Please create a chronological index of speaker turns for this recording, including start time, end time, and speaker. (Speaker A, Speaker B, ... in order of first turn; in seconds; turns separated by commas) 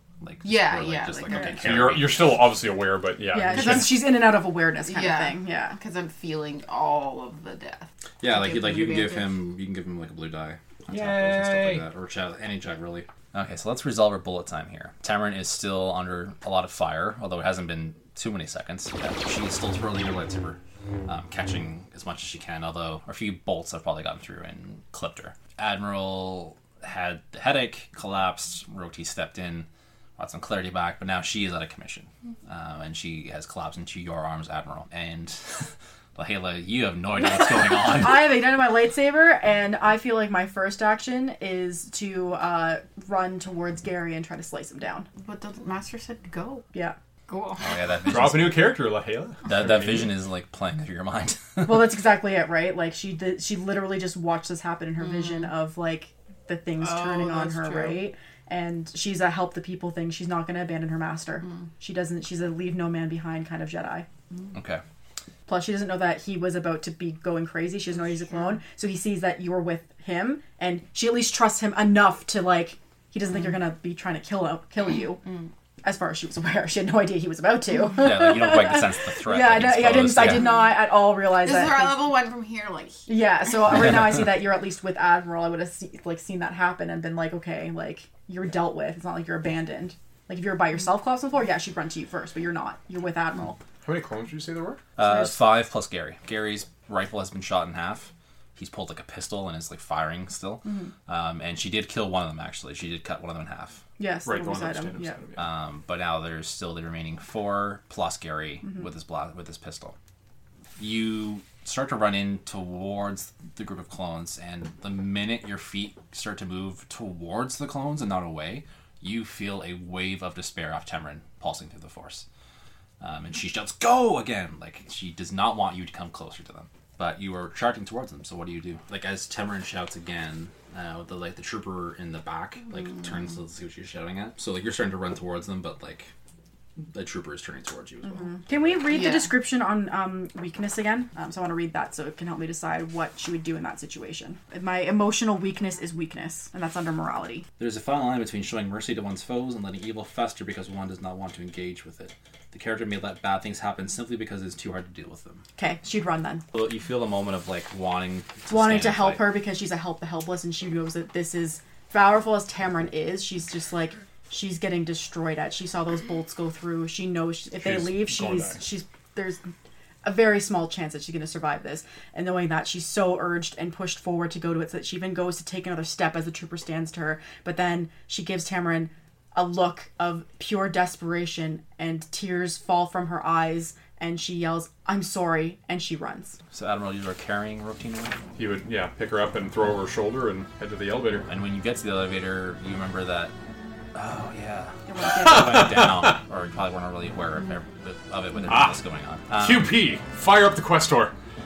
Speaker A: 0.2-2.4, Speaker B: 0.4-1.6, Speaker C: 1.6-4.1, Speaker D: 3.3-5.8, Speaker B: 4.8-9.4, Speaker A: 8.2-29.7, Speaker B: 10.9-11.9, Speaker A: 30.2-38.4, Speaker D: 37.3-45.1, Speaker B: 45.2-46.7, Speaker B: 47.3-47.6, Speaker A: 47.6-48.7, Speaker C: 48.1-50.1, Speaker A: 49.5-52.0, Speaker D: 51.6-64.1, Speaker B: 55.0-55.5, Speaker B: 56.8-58.1, Speaker A: 64.5-64.8, Speaker D: 65.5-75.3, Speaker B: 68.3-68.6, Speaker B: 75.2-75.5, Speaker D: 75.8-82.1, Speaker A: 78.0-80.4, Speaker B: 80.4-83.7, Speaker D: 83.1-93.6, Speaker C: 93.8-94.8, Speaker A: 95.0-103.8, Speaker D: 95.0-95.3, Speaker D: 100.6-100.9, Speaker D: 104.0-105.2, Speaker C: 104.2-105.5, Speaker A: 105.4-110.0, Speaker A: 110.8-122.3, Speaker A: 123.0-136.1, Speaker A: 136.8-138.7, Speaker D: 138.0-147.5, Speaker B: 138.9-139.3, Speaker A: 147.6-155.4, Speaker D: 155.6-156.4, Speaker A: 156.5-159.4, Speaker D: 158.5-169.5, Speaker C: 167.6-168.6, Speaker D: 170.0-186.4, Speaker A: 186.5-188.2, Speaker C: 188.4-191.3, Speaker A: 191.3-193.3, Speaker A: 193.9-199.7, Speaker D: 194.9-195.9, Speaker C: 195.2-196.2, Speaker C: 198.5-201.1